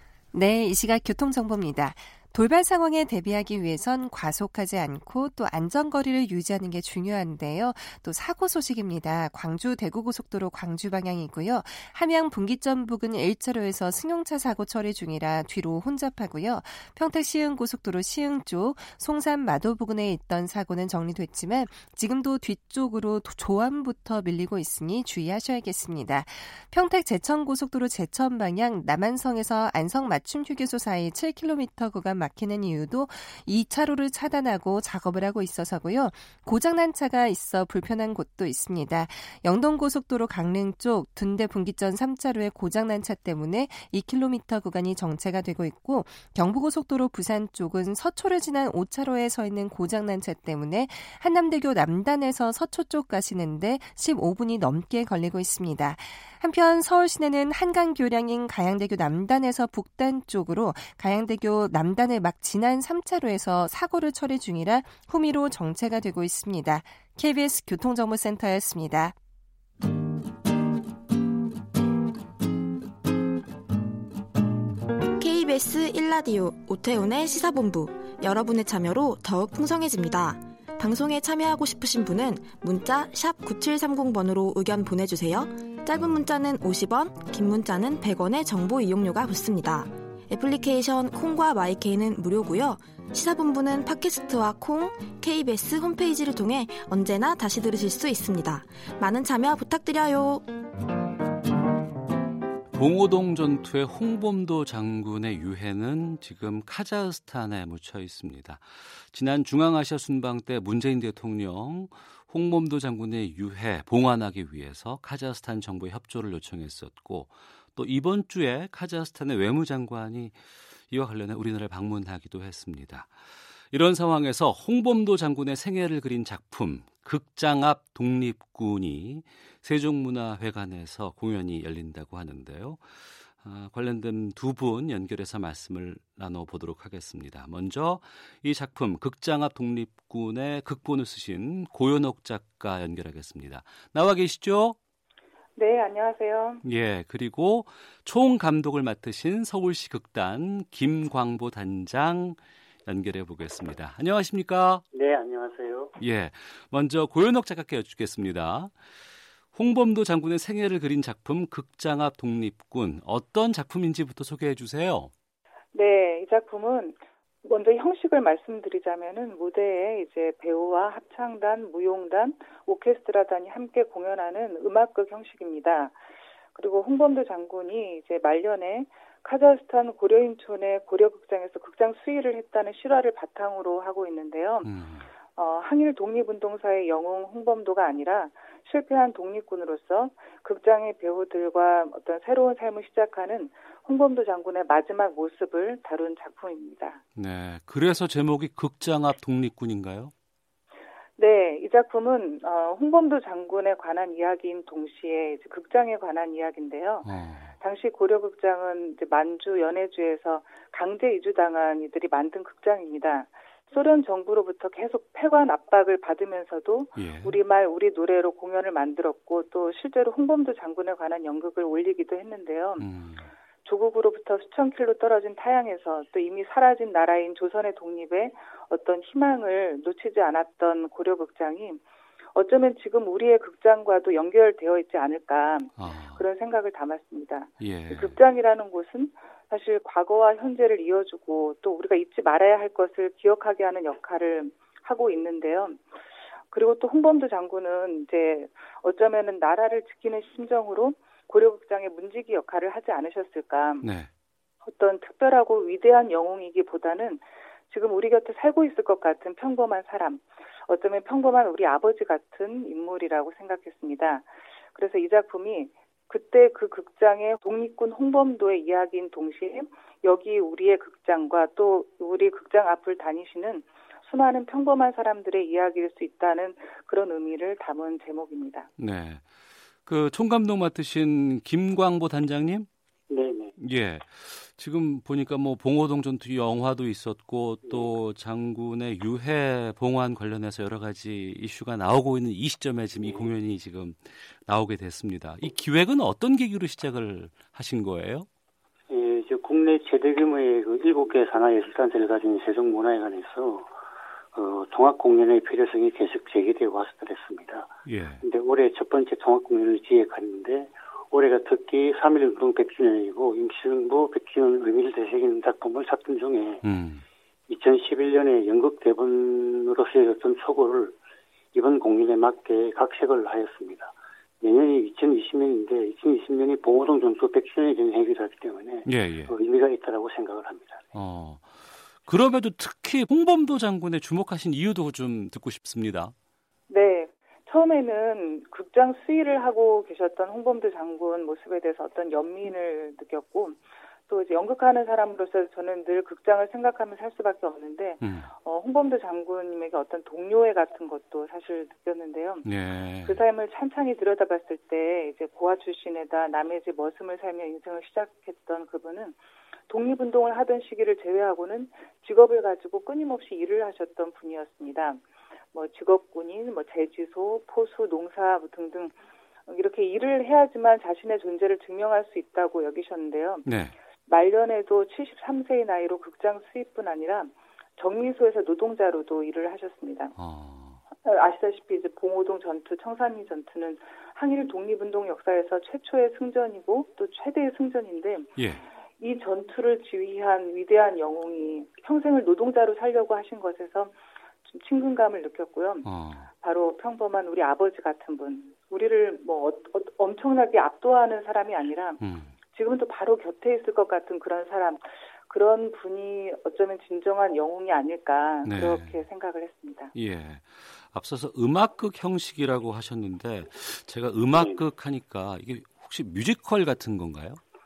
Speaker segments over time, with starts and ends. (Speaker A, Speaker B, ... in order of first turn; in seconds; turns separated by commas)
Speaker A: 0.3-69.1, Speaker B: 75.2-100.5, Speaker C: 102.7-123.1, Speaker C: 123.7-144.8, Speaker D: 145.6-146.6, Speaker C: 146.6-154.8, Speaker E: 154.9-155.9, Speaker C: 156.0-158.7, Speaker C: 159.5-165.1, Speaker D: 165.7-176.0, Speaker D: 176.5-184.7, Speaker C: 184.6-185.1, Speaker D: 185.3-197.0, Speaker C: 197.2-200.1, Speaker D: 201.2-207.1, Speaker C: 207.0-207.5, Speaker D: 207.6-222.9, Speaker C: 216.9-217.4, Speaker C: 222.8-223.3, Speaker D: 223.6-231.8, Speaker D: 232.3-245.8, Speaker C: 235.8-236.2, Speaker C: 237.6-238.2, Speaker D: 246.5-253.9, Speaker C: 253.8-254.1, Speaker D: 254.6-278.7, Speaker C: 278.8-279.3, Speaker C: 279.8-282.7, Speaker E: 283.1-283.5, Speaker C: 283.6-298.3, Speaker E: 287.6-287.9, Speaker E: 298.9-303.7, Speaker E: 304.3-307.7, Speaker C: 307.9-308.2, Speaker E: 308.2-316.6, Speaker C: 316.6-317.0, Speaker E: 317.5-321.0, Speaker E: 321.5-330.9, Speaker C: 328.9-329.3, Speaker C: 330.9-336.1, Speaker D: 336.7-352.5, Speaker C: 348.0-348.3, Speaker C: 352.4-353.2, Speaker D: 353.0-359.2, Speaker D: 359.7-365.0, Speaker D: 365.5-368.9, Speaker D: 369.5-373.4, Speaker C: 373.4-373.8, Speaker D: 374.1-380.1, Speaker C: 380.1-380.8, Speaker D: 381.0-388.3, Speaker C: 388.4-388.6, Speaker D: 389.0-395.9, Speaker C: 395.8-396.3, Speaker D: 396.4-402.0, Speaker C: 402.0-402.3, Speaker D: 402.5-409.9, Speaker C: 408.4-409.0, Speaker C: 409.9-417.4, Speaker E: 414.3-414.6